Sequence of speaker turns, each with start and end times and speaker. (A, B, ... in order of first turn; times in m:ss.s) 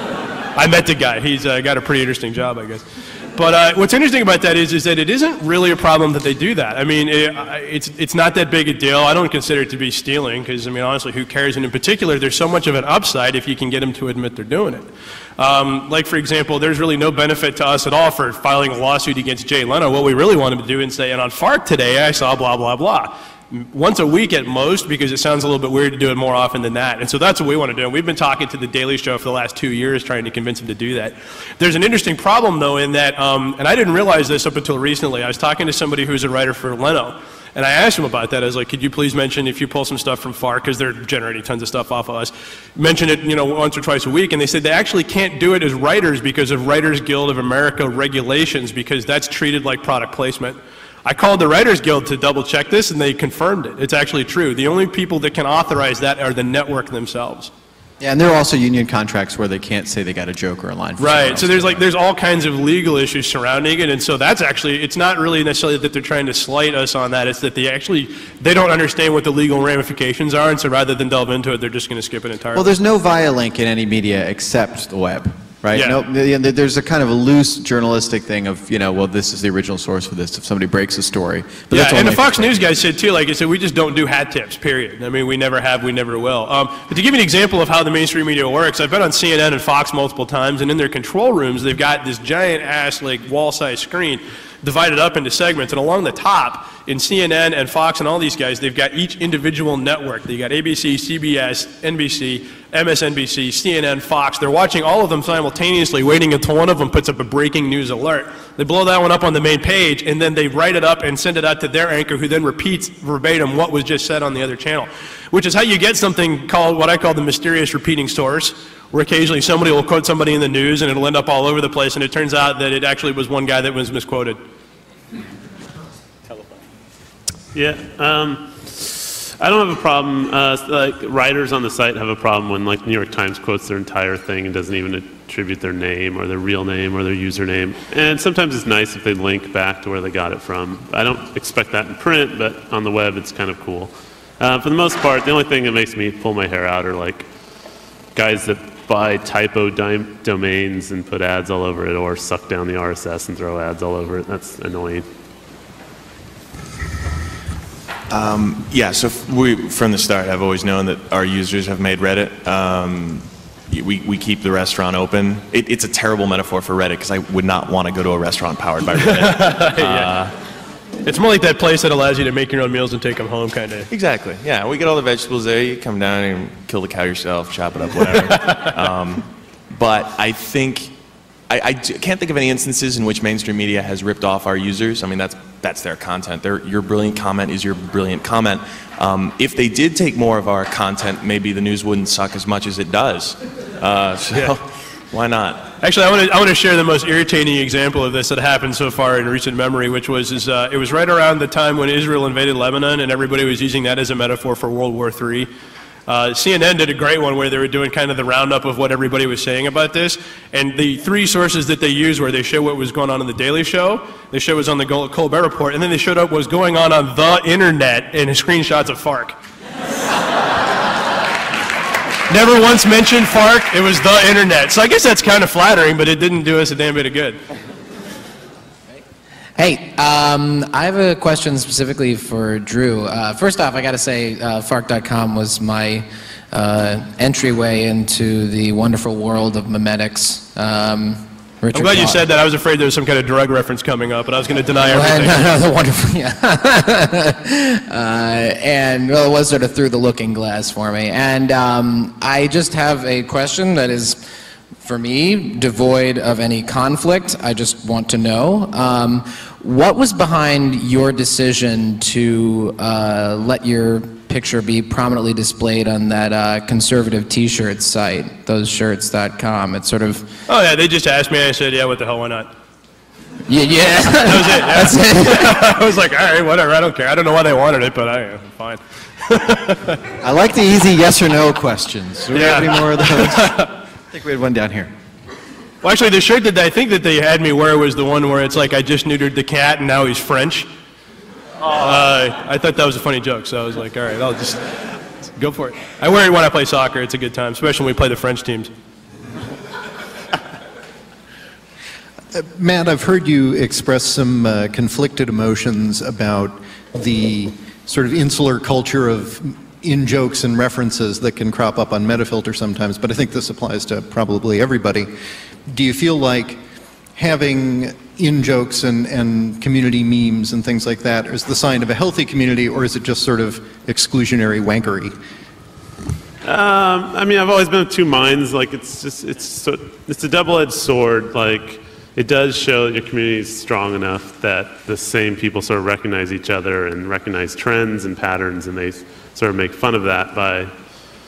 0:00.6-0:02.8 A
0:03.4-0:14.8 A
0:15.4-0:57.5 A
0:58.0-1:01.8 B
1:01.0-1:12.7 A
1:12.5-1:22.5 B
1:21.7-2:04.4 A
2:07.5-2:27.3 C
2:28.2-2:35.0 C
2:38.1-2:50.3 D
2:49.0-2:50.1 A
2:51.0-2:53.9 A
2:53.9-3:00.9 D
2:58.2-2:58.6 A
3:01.5-3:15.7 D
3:15.8-3:25.5 A
3:26.1-3:39.4 A
3:42.3-3:47.4 A
3:49.6-4:02.2 E
4:01.7-4:05.4 A
4:04.9-4:14.2 E
4:14.8-4:30.3 E
4:30.5-4:32.5 A
4:33.5-4:35.7 E
4:34.2-4:40.0 A
4:40.2-4:44.9 B
4:42.4-4:43.7 A
4:45.8-4:50.7 A
4:51.7-4:54.6 A
4:55.3-4:58.7 A
5:02.3-5:15.1 F
5:15.7-5:16.6 F
5:17.2-5:25.1 F
5:26.4-5:40.7 C